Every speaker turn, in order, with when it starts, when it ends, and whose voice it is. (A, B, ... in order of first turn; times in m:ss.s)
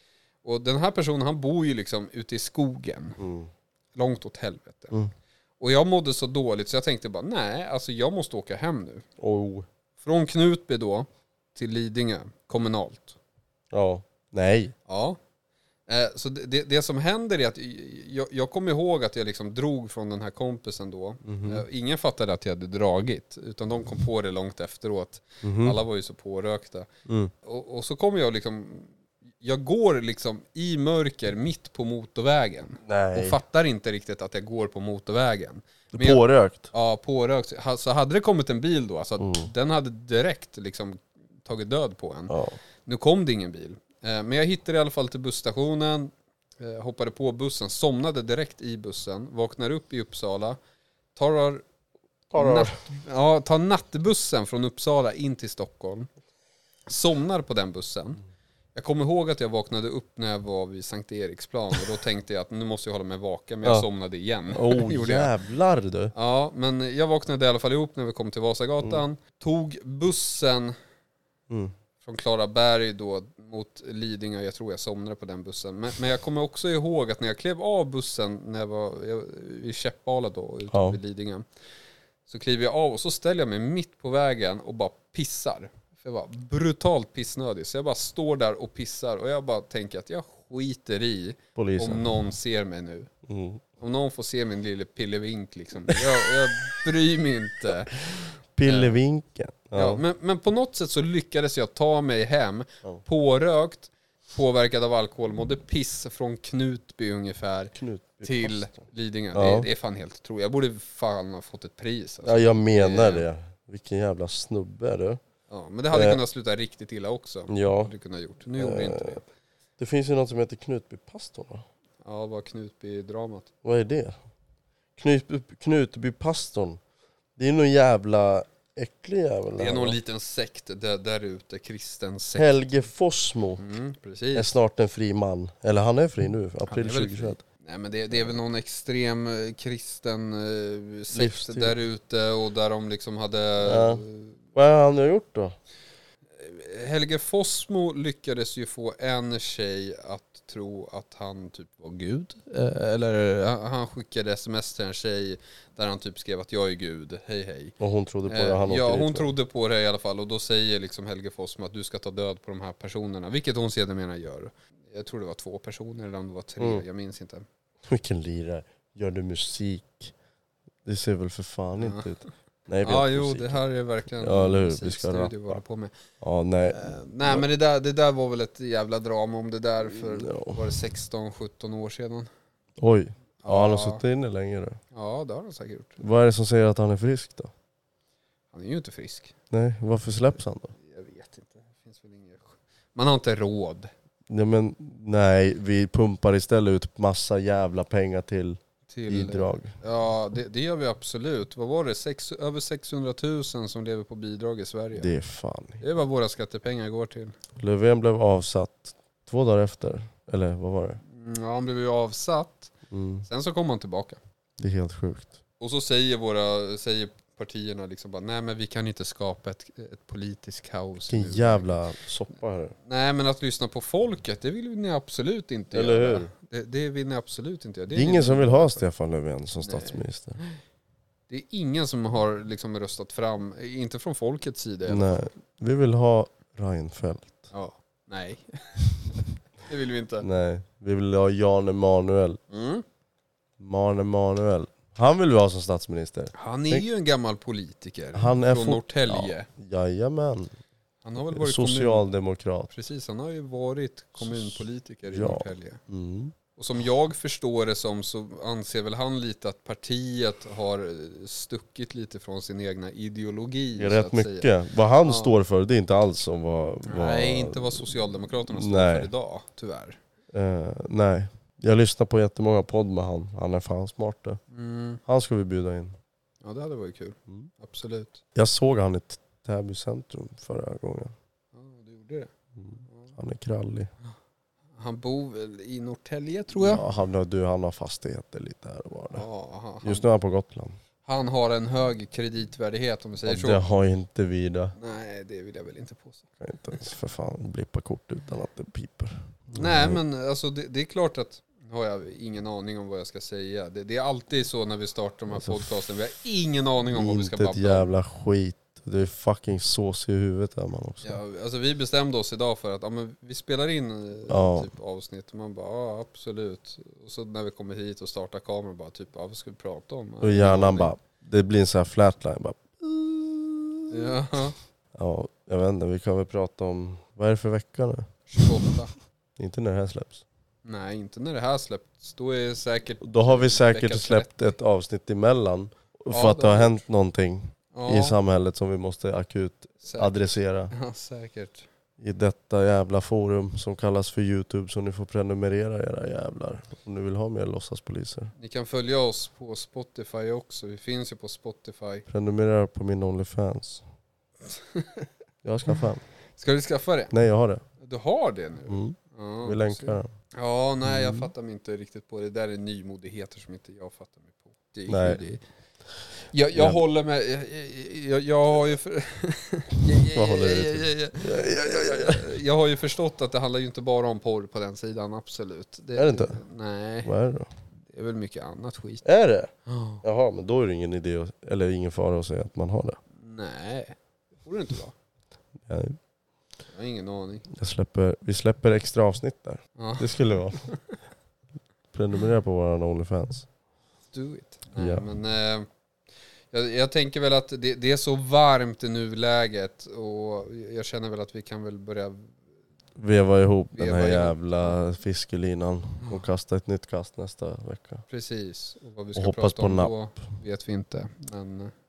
0:00.4-0:03.2 A
0:03.2-0:03.5 B
0:03.9-0:05.0 A
0:05.6-0:09.0 A
0:09.2-0:09.7 B
0:10.0-0:13.2 A
0:13.7-0:14.7 B
0:14.9-0:15.2 A
0:15.9-0:26.9 A
0:21.2-0:21.6 B
0:25.4-0:25.8 B
0:27.0-0:27.3 B
0:27.4-0:50.6 A
0:32.8-0:33.4 B
0:35.9-0:36.7 B
0:39.2-0:39.5 B
0:42.3-0:42.6 B
0:51.1-0:51.6 A
0:52.3-0:52.8 B
0:52.3-0:56.1 A
0:56.9-0:58.2 A
0:58.7-1:05.3 A
1:04.5-1:06.1 B
1:06.1-1:10.7 A
1:12.0-1:21.4 A
1:20.7-1:21.0 B
1:22.3-1:33.1 A
1:31.6-1:32.1 B
1:33.3-1:33.6 B
1:33.8-1:38.1 A
1:38.6-1:40.0 B
1:38.6-1:39.0 A
1:39.7-1:53.2 A
1:47.7-1:48.7 B
1:49.3-1:49.7 B
1:52.2-1:55.2 B
1:55.5-1:59.2 A
1:55.9-1:56.2 B
1:57.5-1:57.9 B
1:58.6-1:59.2 B
1:59.8-2:01.6 B
2:02.0-2:03.5 A
2:03.6-2:04.2 B
2:05.0-2:06.8 B
2:07.4-2:10.0 B
2:09.6-2:12.5 A
2:12.4-2:13.6 B
2:13.6-2:14.5 A
2:14.3-2:17.4 B
2:16.7-2:24.4 A
2:21.1-2:21.7 B
2:23.6-2:24.0 B
2:24.5-2:25.6 B
2:26.4-2:47.4 A
2:37.8-2:39.3 B
2:47.8-2:50.1 B
2:50.8-2:53.6 B
2:51.8-2:52.1 A
2:52.8-2:55.9 A
2:54.2-2:55.6 B
2:56.2-2:57.4 B
2:56.7-3:02.3 A
2:59.9-3:00.6 B
3:02.8-3:04.8 B
3:03.4-3:04.0 A
3:04.9-3:06.0 A
3:06.0-3:07.5 B
3:08.5-3:09.3 A
3:09.5-3:10.7 B
3:10.7-3:13.9 A
3:14.3-3:19.8 B
3:18.9-3:25.1 A
3:24.9-3:25.8 B
3:25.8-3:27.4 A
3:27.6-3:31.0 B
3:31.1-3:32.7 A
3:32.9-3:33.2 B
3:33.2-3:34.2 A
3:34.6-3:35.4 B
3:35.6-3:41.8 A
3:41.1-3:42.7 B
3:42.8-3:48.8 A
3:45.7-3:46.3 B
3:47.9-3:50.4 B
3:49.6-3:50.6 A
3:51.3-3:55.3 A
3:54.9-3:57.5 B
3:57.5-4:00.2 A
4:00.2-4:02.4 B
4:02.5-4:02.8 A
4:03.6-4:06.8 B
4:06.3-4:09.5 A
4:08.1-4:10.5 B
4:11.0-4:12.1 A
4:11.3-4:12.7 B
4:12.7-4:15.8 A
4:14.2-4:16.3 B
4:16.6-4:24.5 A
4:23.8-4:29.1 B
4:25.0-4:25.3 A
4:26.8-4:30.0 A
4:30.3-4:34.4 B
4:34.5-4:35.0 A
4:35.0-4:36.0 B
4:36.4-4:38.2 A
4:38.3-4:41.1 B
4:41.5-4:42.3 A
4:42.6-4:43.9 B
4:42.9-4:43.1 A
4:44.8-4:46.8 A
4:46.5-4:49.3 B
4:49.1-4:50.0 A
4:49.8-4:50.8 B
4:51.0-4:53.6 A
4:53.2-4:54.7 B
4:54.8-4:56.2 A
4:56.4-5:00.0 B
4:59.5-5:07.9 A
5:05.3-5:05.7 B
5:06.9-5:11.2 B
5:11.0-5:20.9 A
5:14.3-5:14.7 B
5:20.2-5:24.1 B
5:23.9-5:24.6 A
5:24.9-5:28.7 B
5:28.3-5:28.9 A
5:29.4-5:30.2 B
5:30.6-5:34.4 A
5:33.0-5:40.7 B
5:36.1-5:36.8 A
5:37.7-5:38.2 A
5:39.8-5:40.1 A
5:40.7-5:41.7 A
5:42.0-5:48.3 B
5:48.4-5:52.0 A
5:52.1-5:53.8 B
5:54.5-5:55.0 A
5:55.4-5:56.0 B
5:56.4-5:57.1 A
5:57.1-5:57.6 B
5:57.8-6:05.4 A
5:58.7-6:00.1 B
6:00.8-6:01.3 B
6:04.9-6:05.2 B
6:06.3-6:17.1 A
6:06.5-6:06.8 B
6:09.9-6:12.4 B
6:16.0-6:16.4 B
6:17.0-6:17.5 B
6:17.9-6:19.0 A
6:19.0-6:19.5 B
6:19.6-6:20.0 A
6:20.0-6:23.0 B
6:23.2-6:24.9 A
6:25.6-6:26.0 B
6:26.7-6:27.5 A
6:27.5-6:30.6 B
6:29.8-6:31.0 A
6:31.9-6:33.4 B
6:34.1-6:35.7 A
6:34.8-6:35.0 B
6:36.5-6:42.4 A
6:43.0-6:48.0 B
6:43.7-6:44.8 A
6:48.1-6:51.7 A
6:49.2-6:49.9 B